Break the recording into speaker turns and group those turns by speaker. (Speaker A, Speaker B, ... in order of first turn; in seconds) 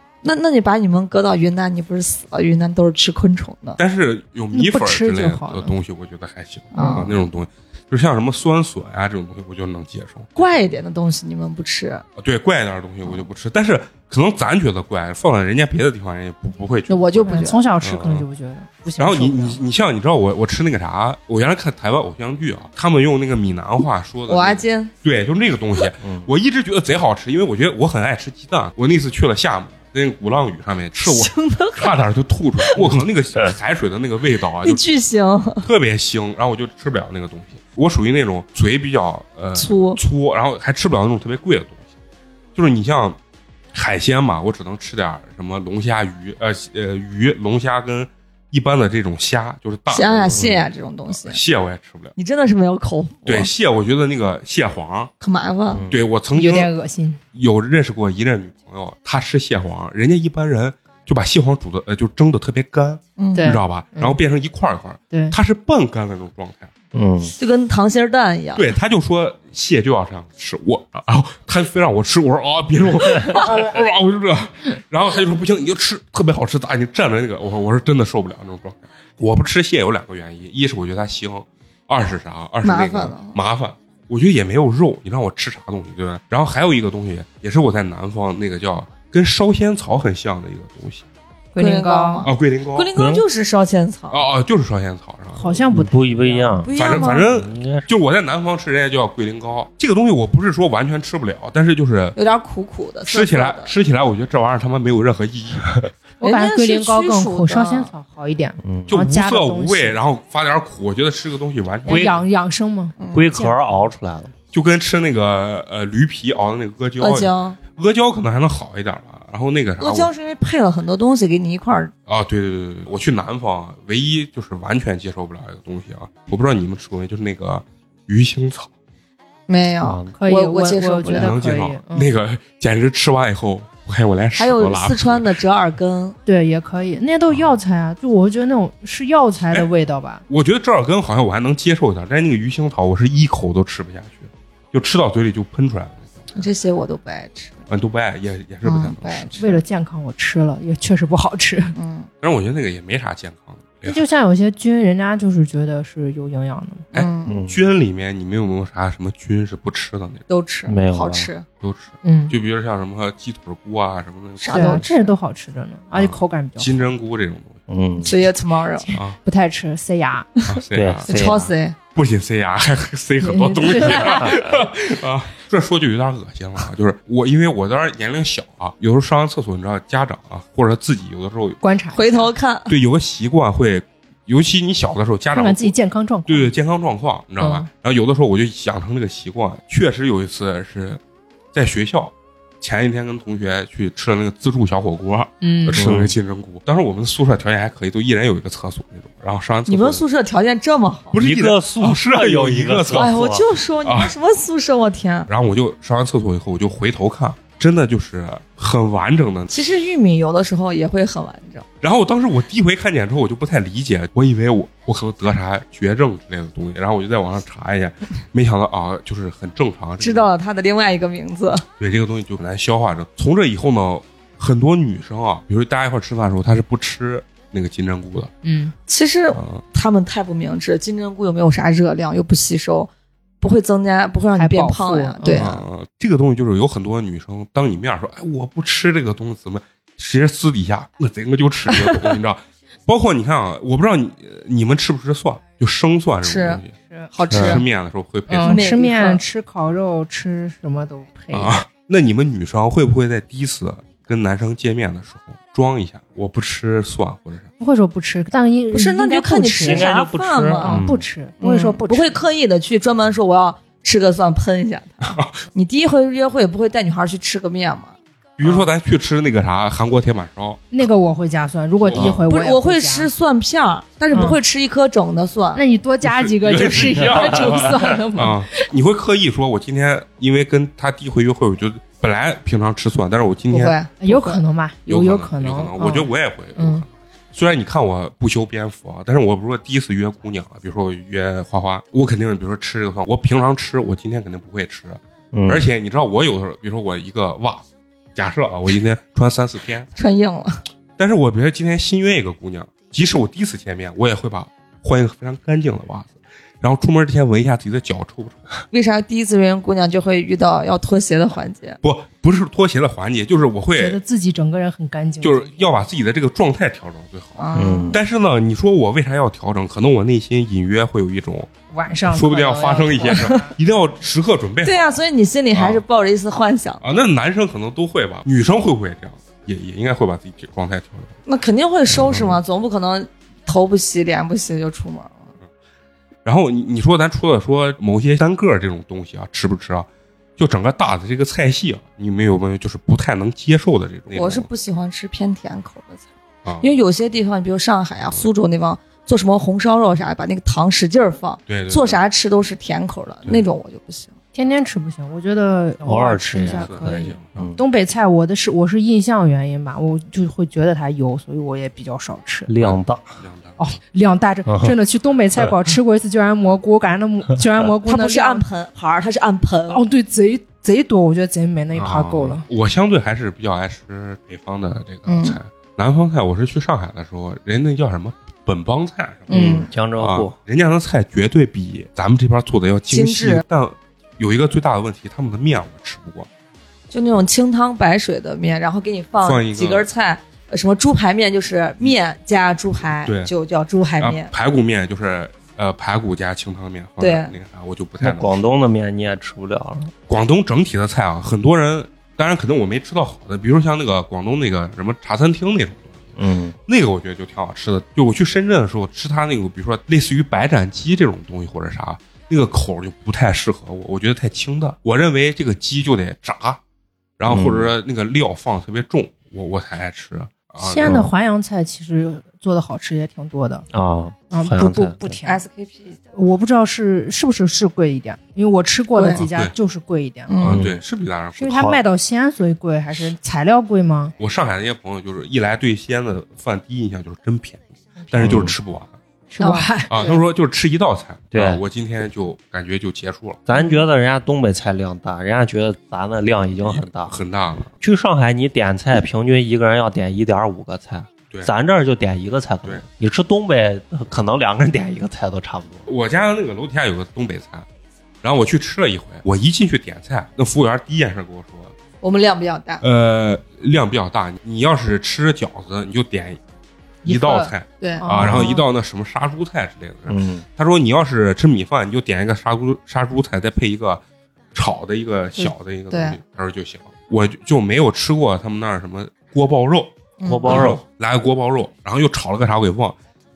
Speaker A: 0.2-3.8, 6.7-7.1, 10.4-12.1, 16.9-17.6, 24.3-24.9, 31.0-31.9, 34.6-35.7, 39.6-40.0, 49.9-51.4, 52.2-53.5, 55.2-55.9, 63.2-63.6, 67.4-68.6, 82.6-83.4, 91.6-94.2, 96.6-97.3, 102.2-103.7, 106.2-107.9, 113.0-113.3, 117.0-117.6, 119.8-121.9, 129.5-131.4, 134.3-136.2, 146.3-147.7, 148.7-149.3, 151.7-152.1, 156.9-157.4, 160.3-161.5, 164.4-165.1, 168.0-168.9, 171.1-171.8, 181.9-182.8, 199.7-201.2, 202.9-205.3, 209.5-211.7, 220.0-221.7, 228.9-232.9, 233.4-235.7, 246.2-246.6, 247.1-247.7, 248.4-249.2, 258.7-260.8, 261.4-268.0, 272.1-275.6, 283.5-284.4, 300.0-300.6, 308.7-311.8, 317.4-318.0, 324.6-326.8, 331.3-335.3, 344.1-346.1, 346.6-354.1, 367.9-369.8, 375.1-375.4, 379.3-379.7, 382.9-383.4, 386.9-394.3, 397.0-397.3, 425.2-426.0, 428.9-429.2, 430.3-430.6, 439.4-439.7, 462.0-462.8, 467.8-468.6, 475.9-476.2, 480.2-480.8
Speaker B: 3.8-10.5, 12.2-18.3, 19.0-34.8, 35.6-41.8, 42.5-43.2, 43.7-50.5, 51.1-52.1, 53.3-55.1, 55.9-56.7, 57.3-66.7, 68.6-91.0, 92.2-92.9, 94.1-95.5, 96.7-102.2, 103.1-105.9, 108.9-112.2, 114.5-120.1, 122.1-128.7, 131.1-135.3, 140.3-146.4, 147.7-149.6, 152.2-154.0, 156.9-160.2, 161.6-164.9, 165.9-167.6, 170.5-171.1, 171.9-181.6, 182.7-185.8, 186.3-191.0, 191.5-200.0, 201.1-203.2, 203.8-204.1, 205.3-209.5, 211.8-220.3, 221.8-228.3, 229.3-229.6, 235.3-246.7, 247.3-248.7, 251.3-257.5, 265.0-265.4, 268.4-270.9, 271.8-272.2, 276.0-283.8, 284.9-299.9, 301.0-308.5, 311.8-314.0, 315.2-321.5, 322.1-325.0, 325.5-325.8, 326.8-331.1, 336.2-344.5, 346.4-346.7, 351.5-352.0, 356.4-357.5, 362.6-363.6, 371.7-386.3, 389.2-389.9, 393.1-393.3, 394.0-398.4, 400.1-406.1, 406.7-416.6, 417.2-421.1, 429.1-429.5, 430.4-431.6, 434.2-439.0, 439.9-443.4, 446.6-447.7, 455.9-457.7, 458.2-461.8, 462.8-466.4, 467.0-474.0, 474.5-483.0
Speaker C: 4.5-5.8, 17.3-19.6, 56.3-57.2, 63.4-64.2, 65.1-65.4, 91.5-92.3, 95.3-96.7, 106.2-110.0, 111.8-113.9, 130.2-132.1, 136.3-140.2, 149.4-151.7, 153.8-156.9, 162.0-162.3, 164.5-166.9, 169.2-170.3, 173.2-174.3, 181.6-182.3, 185.3-186.5, 187.4-187.7, 195.4-195.9, 228.4-228.8, 234.4-235.5, 248.3-251.6, 257.6-259.9, 260.6-262.2, 270.7-273.1, 274.1-274.4, 275.6-278.6, 284.0-286.9, 313.8-315.6, 321.7-323.6, 354.4-362.5, 363.6-368.4, 369.7-372.5, 420.6-423.7, 424.3-425.4, 426.1-430.3, 431.4-434.1, 439.3-440.1, 443.6-443.8, 467.0-468.5
Speaker D: 26.0-26.3, 55.7-56.0, 66.9-67.3, 93.0-93.2, 95.7-97.9, 108.6-108.9, 111.9-112.1, 113.1-114.3, 129.8-130.1, 157.3-157.6, 160.7-161.3, 167.7-168.1, 170.7-171.5, 195.8-196.1, 201.2-203.4, 247.3-247.6, 259.6-261.1, 295.3-295.6, 317.6-318.0, 355.8-357.6, 362.5-363.0, 364.5-364.8, 379.3-380.3, 398.0-399.9, 406.2-406.6, 417.3-417.7, 420.8-421.1, 423.7-425.1, 430.4-430.8, 431.5-431.8, 438.2-438.5, 441.3-441.6, 443.5-447.1, 447.8-455.9, 468.2-468.5, 470.1-470.4, 480.2-480.8